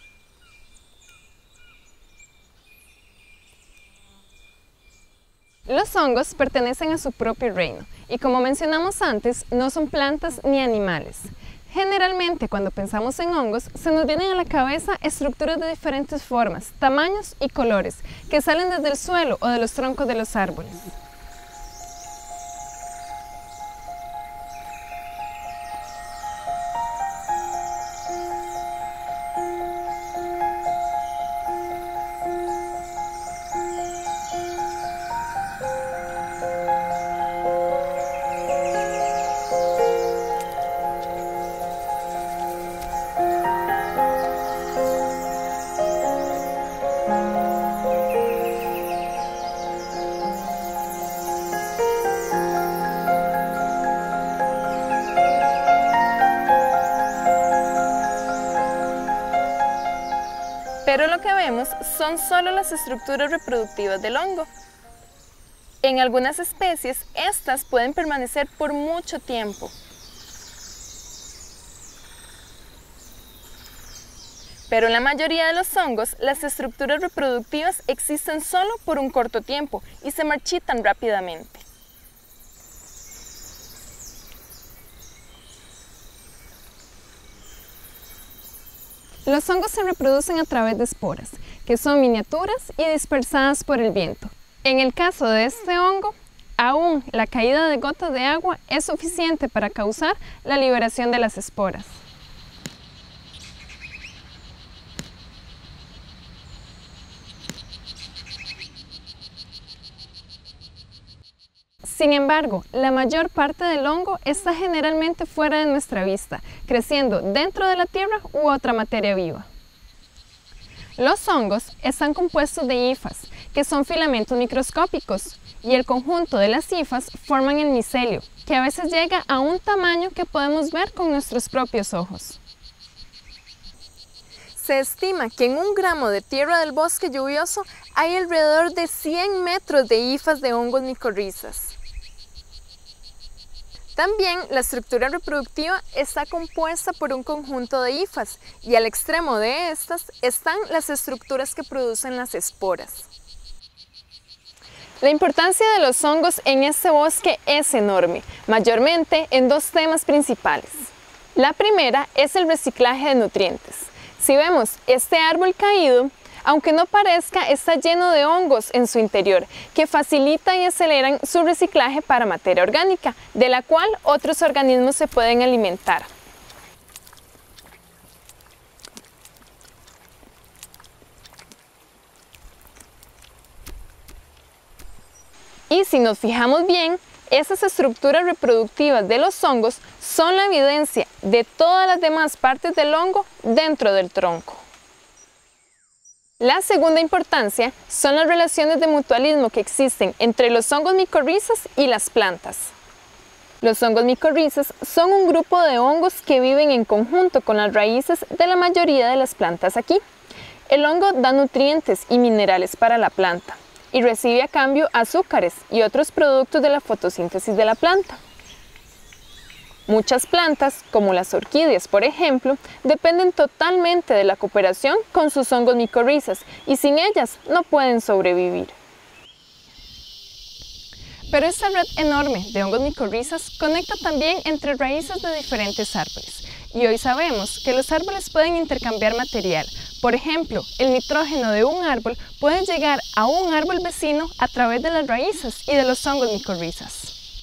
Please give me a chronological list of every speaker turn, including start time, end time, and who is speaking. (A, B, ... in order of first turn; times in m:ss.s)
0:05.6-0:21.0 A
1:00.8-1:04.5 A
1:05.8-1:09.7 A
1:14.7-1:21.6 A
1:29.2-1:42.0 A
1:51.8-1:59.4 A
2:01.0-2:12.4 A
2:14.5-2:21.8 A
2:23.9-2:33.1 A
2:35.0-2:56.1 A
3:05.7-3:14.6 A
3:16.4-3:22.7 A
3:23.6-3:30.0 A
3:30.7-3:38.2 A
3:39.9-3:48.7 A
3:51.3-4:07.1 A